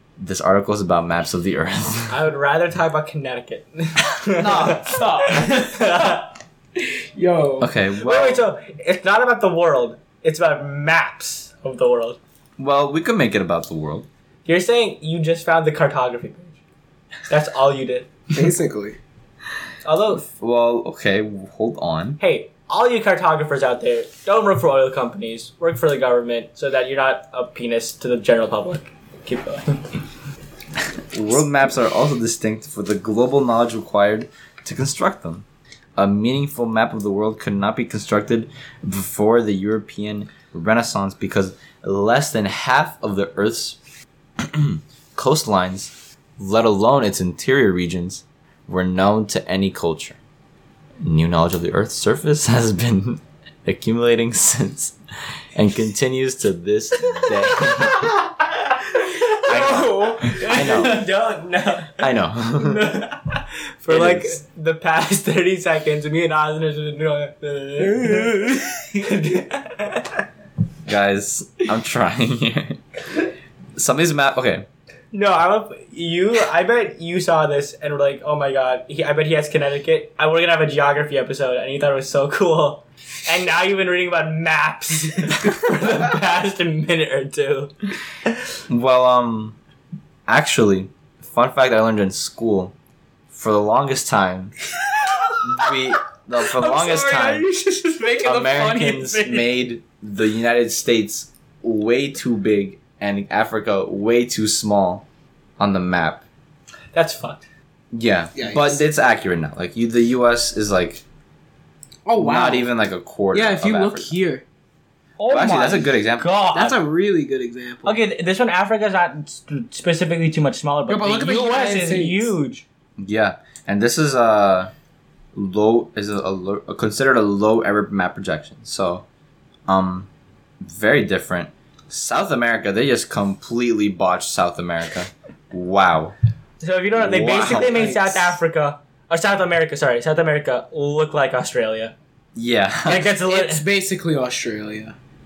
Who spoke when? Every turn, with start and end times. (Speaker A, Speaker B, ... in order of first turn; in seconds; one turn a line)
Speaker A: 0.2-2.1
Speaker B: 2.1-6.3
Speaker A: 4.4-4.9
Speaker C: 4.4-6.2
Speaker C: 6.8-7.7
Speaker A: 7.6-8.4
Speaker B: 8.0-12.2
Speaker A: 12.6-14.1
Speaker B: 14.5-16.6
Speaker B: 17.3-18.1
Speaker C: 18.3-19.0
Speaker B: 19.8-20.2
Speaker A: 20.2-22.2
Speaker B: 22.2-29.9
Speaker A: 31.1-35.5
Speaker A: 36.0-43.8
Speaker A: 44.4-50.2
Speaker A: 51.0-55.0
Speaker A: 55.5-58.1
Speaker B: 57.2-58.1
Speaker B: 58.9-70.2
Speaker A: 59.5-61.0
Speaker C: 59.5-61.0
Speaker A: 62.0-63.0
Speaker A: 63.9-64.4
Speaker C: 67.9-68.7
Speaker A: 70.9-72.8
Speaker A: 73.8-74.7
Speaker B: 75.1-87.7
Speaker A: 88.7-89.6
Speaker A: 90.3-92.7
Speaker A: 93.3-94.6
Speaker C: 94.9-95.4
Speaker A: 95.4-97.5
Speaker C: 96.4-99.5
Speaker A: 98.2-105.0
Speaker A: 105.6-106.2
Speaker B: 106.9-107.5
Speaker A: 107.9-111.0
Speaker C: 108.3-108.8
Speaker C: 112.0-112.7
Speaker A: 112.2-114.1
Speaker C: 113.3-114.4
Speaker B: 115.2-116.8
Speaker A: 115.3-116.6
Speaker C: 116.5-118.0
Speaker B: 117.8-122.7
Speaker C: 120.9-122.3
Speaker A: 123.0-124.7
Speaker A: 125.3-129.1
Speaker A: 129.7-130.1
Speaker A: 130.6-136.2
Speaker B: 136.6-141.9
Speaker A: 136.9-137.9
Speaker C: 137.5-138.3
Speaker A: 142.3-143.1
Speaker B: 142.9-143.7
Speaker C: 143.3-144.9